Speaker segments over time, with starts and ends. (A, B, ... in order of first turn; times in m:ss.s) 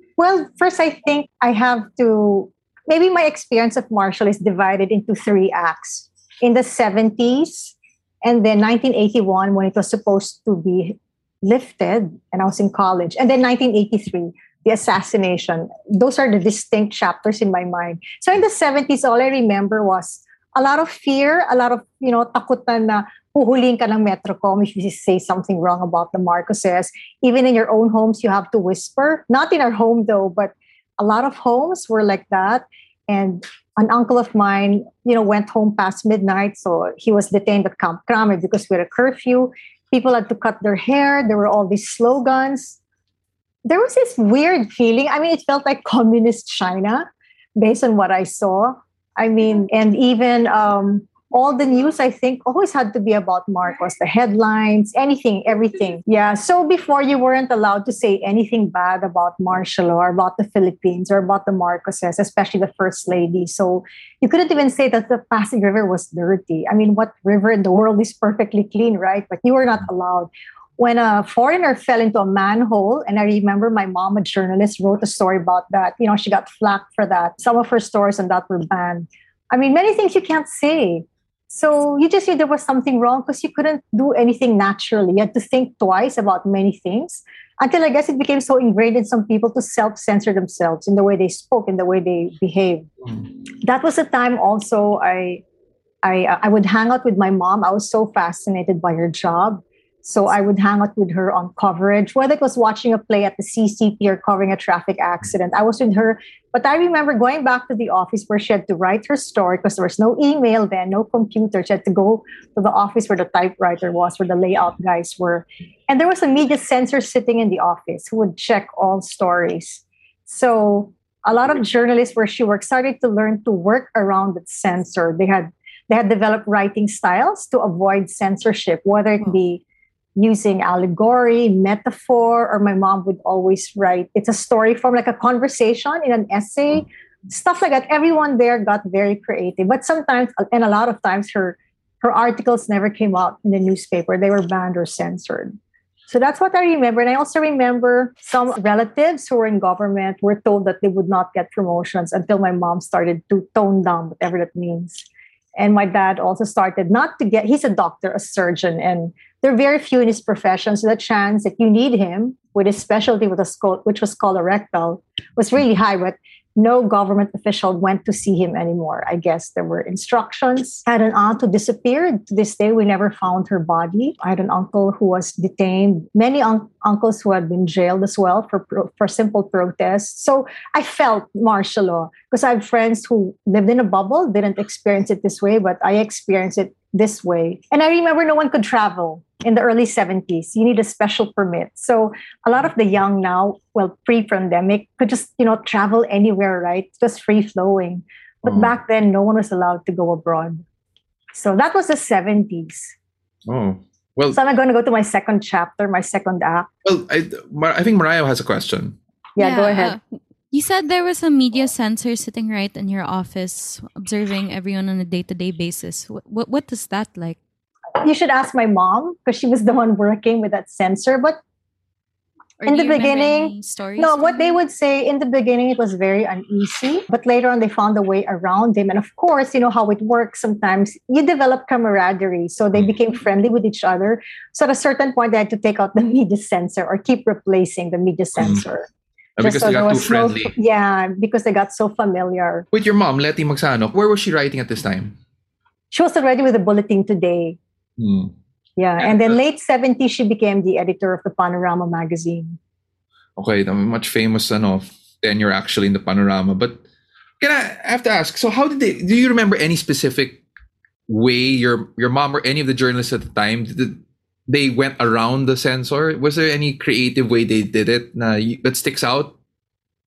0:00.2-0:42.8 A
0:43.6-1:32.9 A
1:33.6-1:35.4 A
1:36.0-2:09.6 A
2:10.2-2:25.6 A
2:26.1-3:20.6 A
3:18.4-3:18.7 B
3:21.3-3:22.9 A
3:23.4-3:24.4 B
3:24.3-3:26.7 A
3:26.8-3:29.0 B
3:29.4-3:30.0 A
3:29.4-3:37.4 C
3:38.0-3:41.4 A
3:42.6-3:44.6 C
3:42.7-3:58.9 A
3:58.4-3:58.6 B
3:59.4-4:00.5 B
3:59.4-4:02.6 A
4:02.7-4:05.2 B
4:05.9-4:07.6 A
4:08.0-4:08.3 B
4:08.8-4:12.6 A
4:13.4-4:16.8 B
4:17.4-4:20.4 B
4:21.1-4:29.3 B